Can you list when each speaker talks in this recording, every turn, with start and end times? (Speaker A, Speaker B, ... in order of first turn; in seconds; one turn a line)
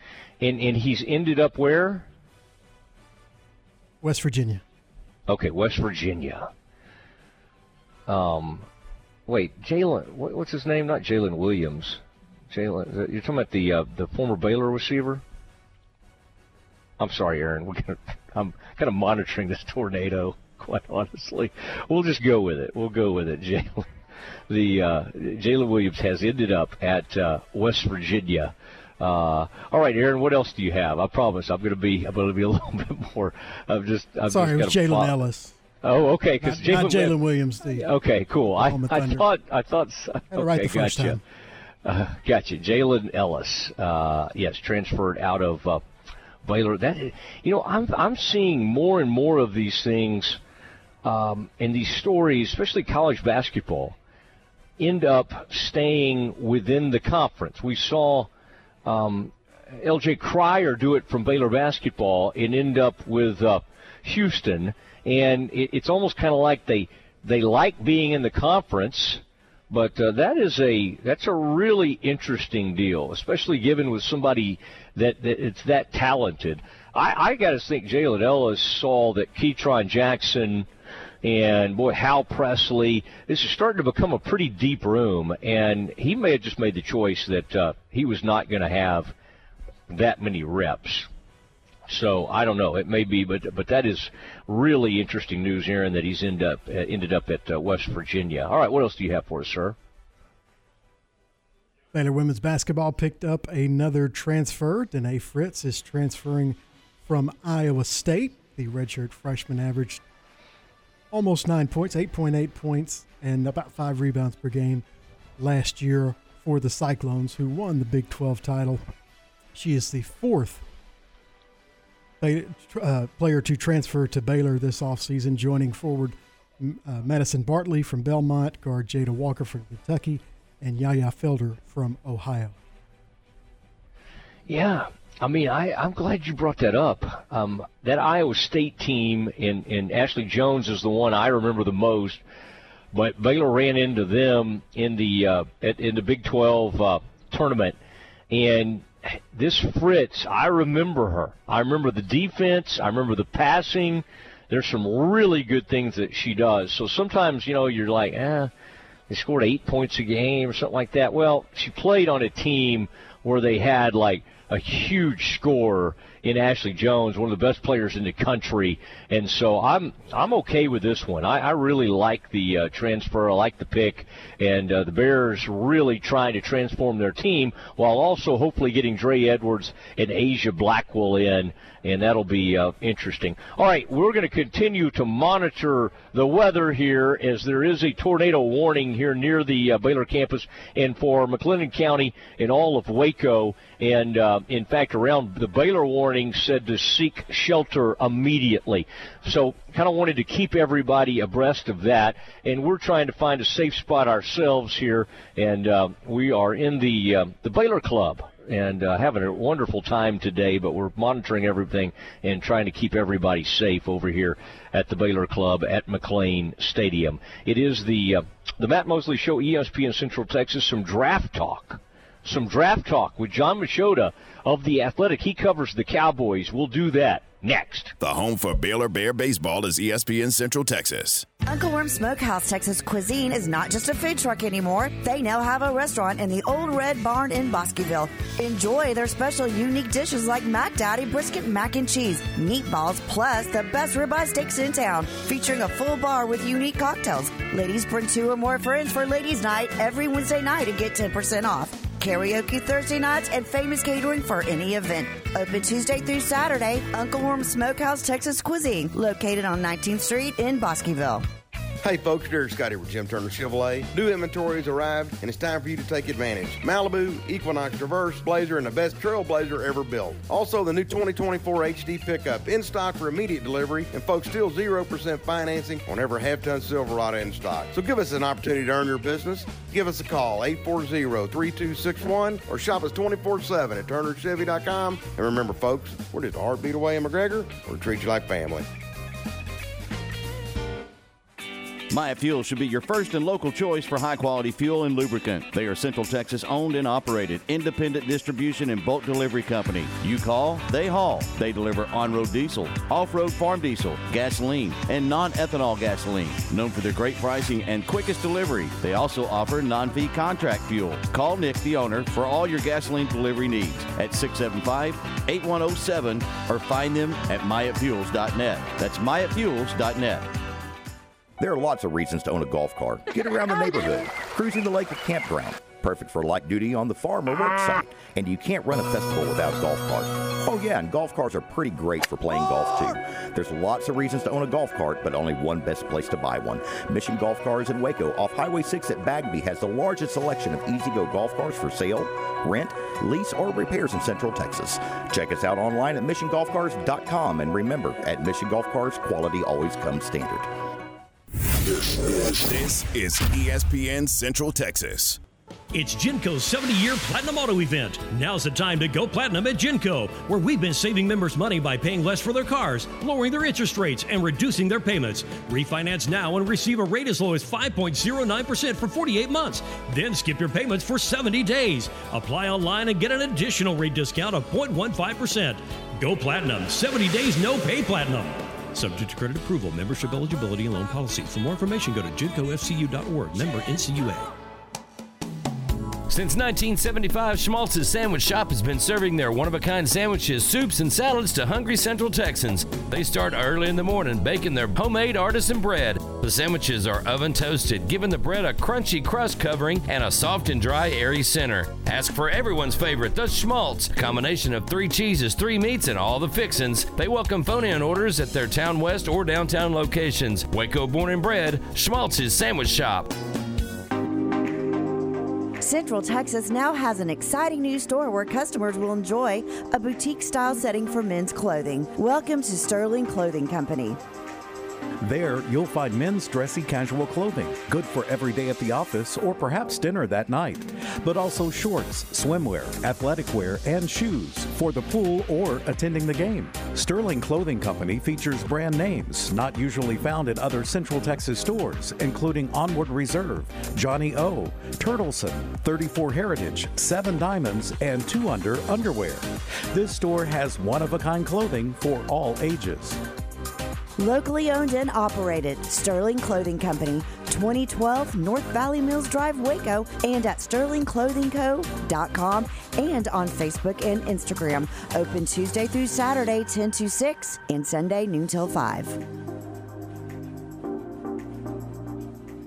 Speaker A: 0.4-2.1
Speaker B: 4.0-4.6
Speaker A: 5.3-6.5
Speaker A: 8.1-8.7
Speaker A: 9.3-15.2
Speaker A: 17.0-23.9
Speaker A: 24.5-35.1
Speaker B: 34.3-35.6
Speaker A: 35.8-37.2
Speaker B: 36.4-37.9
Speaker A: 37.8-41.2
Speaker B: 38.5-39.3
Speaker B: 40.3-41.2
Speaker A: 41.8-45.8
Speaker A: 46.4-50.4
Speaker A: 51.0-54.0
Speaker A: 54.8-58.3
Speaker A: 58.8-80.7
Speaker A: 81.2-89.1
Speaker A: 89.9-91.1
Speaker A: 91.9-99.8
Speaker B: 101.9-110.0
Speaker B: 111.1-114.8
Speaker B: 115.4-118.8
Speaker B: 119.5-120.6
Speaker B: 122.2-132.6
Speaker A: 134.5-142.2
Speaker A: 142.9-147.8
Speaker A: 148.3-158.5
Speaker A: 159.1-227.9
Speaker C: 228.0-231.3
Speaker D: 231.5-261.2
Speaker E: 261.8-288.7
Speaker F: 291.9-320.3
Speaker G: 321.4-350.5
Speaker C: 352.3-355.2
Speaker H: 355.7-383.8
Speaker I: 386.1-413.1
Speaker D: 415.6-424.0
Speaker J: 425.0-453.0
Speaker D: 454.0-469.0